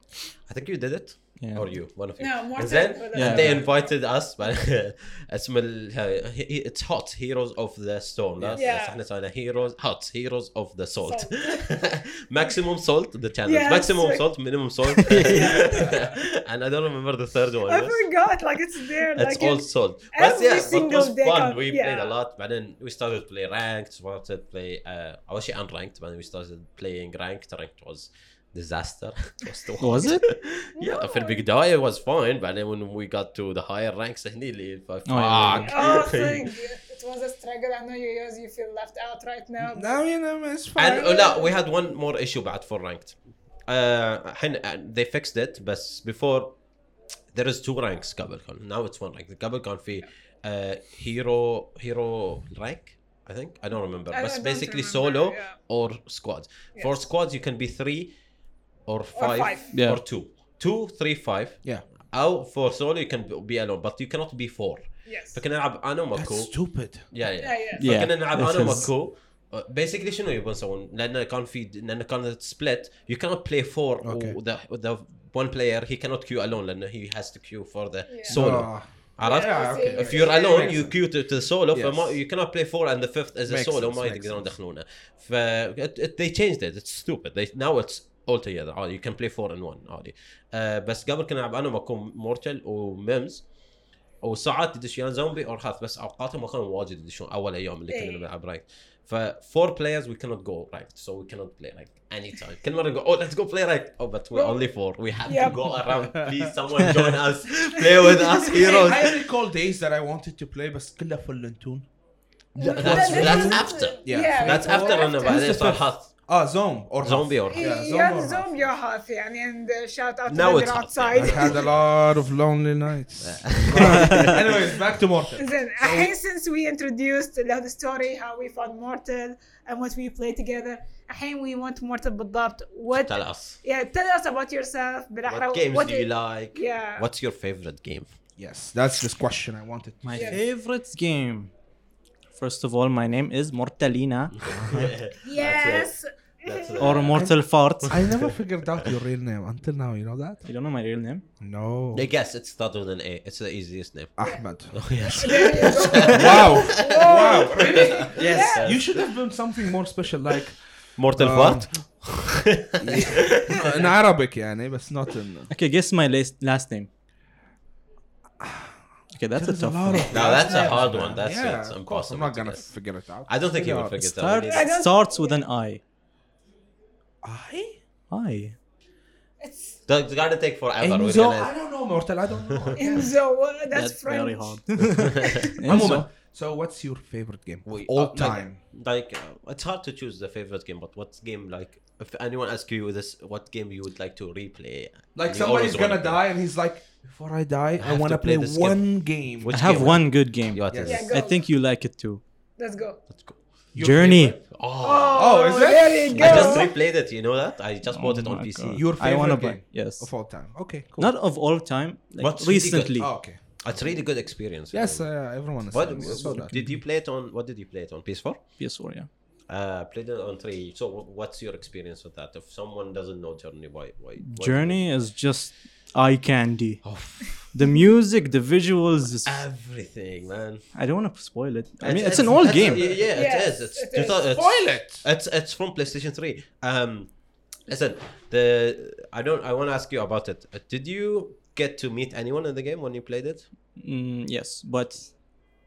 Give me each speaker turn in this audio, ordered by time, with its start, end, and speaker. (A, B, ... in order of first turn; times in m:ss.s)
0:00.5-0:18.0 A
0:01.4-0:01.6 B
0:02.2-0:03.9 C
0:03.1-0:03.6 B
0:08.5-0:09.0 C
0:11.0-0:11.7 C
0:13.4-0:14.3 C
0:14.9-0:16.1 C
0:17.7-0:22.1 C
0:19.1-0:36.5 A
0:29.8-0:30.2 B
0:30.8-0:31.4 C
0:35.1-0:35.8 B
0:35.6-0:40.0 C
0:39.6-0:41.1 D
0:40.8-0:46.6 A
0:40.9-0:41.5 C
0:47.3-0:58.1 A
0:54.1-0:55.6 C
0:56.7-0:57.1 C
0:58.8-1:33.4 A
0:59.1-0:59.7 C
0:59.7-1:00.0 B
1:05.0-1:05.4 C
1:06.1-1:07.1 D
1:07.4-1:07.9 C
1:07.8-1:08.9 B
1:14.0-1:14.4 D
1:18.1-1:18.4 C
1:18.3-1:20.9 D
1:19.2-1:20.8 C
1:21.7-1:22.2 D
1:23.5-1:24.5 D
1:34.2-1:49.2 A
1:37.9-1:38.2 C
1:44.3-1:44.7 C
1:45.2-1:45.8 C
1:47.9-1:48.9 C
1:48.6-1:51.9 D
1:52.5-1:58.7 D
1:52.6-1:55.4 C
1:52.7-1:56.1 A
1:57.0-1:57.7 A
1:57.5-2:01.7 C
2:00.3-2:01.7 A
2:01.1-2:06.1 D
2:03.2-2:04.5 A
2:05.4-2:17.1 C
2:12.9-2:13.6 A
2:15.2-2:18.2 A
2:18.4-2:20.4 D
2:20.0-2:21.5 B
2:20.1-2:20.4 C
2:22.4-2:24.5 B
2:24.4-2:28.3 A
2:24.5-2:24.9 D
2:25.2-2:27.0 C
2:26.8-2:28.0 B
2:27.1-2:30.4 D
2:30.4-2:31.2 B
2:31.4-2:32.1 D
2:31.9-2:39.1 A
2:34.2-2:40.6 D
2:35.0-2:38.7 C
2:41.0-2:43.9 A
2:41.1-2:41.7 D
2:42.8-2:45.5 D
2:45.5-2:46.9 B
2:48.4-2:48.8 D
2:49.1-2:50.4 B
2:49.3-2:54.0 D
2:50.1-2:52.7 A
2:53.2-2:54.7 A
2:54.0-2:55.8 B
2:54.4-2:55.4 C
2:57.2-2:57.8 D
2:58.1-2:58.6 B
2:59.4-2:59.8 C
2:59.9-3:01.6 A
3:00.8-3:03.1 D
3:02.8-3:04.7 C
3:03.7-3:06.1 B
3:04.9-3:05.4 A
3:05.2-3:05.5 C
3:05.6-3:08.6 D
3:07.6-3:16.2 A
3:15.1-3:20.0 D
3:17.8-3:21.1 A
3:19.5-3:22.2 B
3:20.7-3:21.1 D
3:20.8-3:21.4 C
3:22.6-3:23.0 C
3:23.1-3:23.6 A
3:23.7-3:24.4 D
3:23.8-3:24.4 B
3:24.4-3:25.5 A
3:24.8-3:26.7 C
3:25.1-3:26.5 D
3:26.1-3:26.6 B
3:26.1-3:28.9 A
3:27.8-3:30.1 B
3:28.8-3:31.2 D
3:31.0-3:33.1 B
3:32.2-3:38.6 A
3:33.0-3:34.0 D
3:34.7-3:36.7 D
3:38.6-3:39.1 B
3:39.5-3:45.0 A
3:44.2-3:49.4 B
3:46.8-3:47.5 A
3:49.2-3:50.7 A
3:50.7-3:52.9 B
3:51.8-3:57.1 A
3:52.7-3:53.0 D
3:53.1-3:54.2 C
3:54.3-3:55.1 D
3:57.7-4:03.5 A
4:03.7-4:05.2 B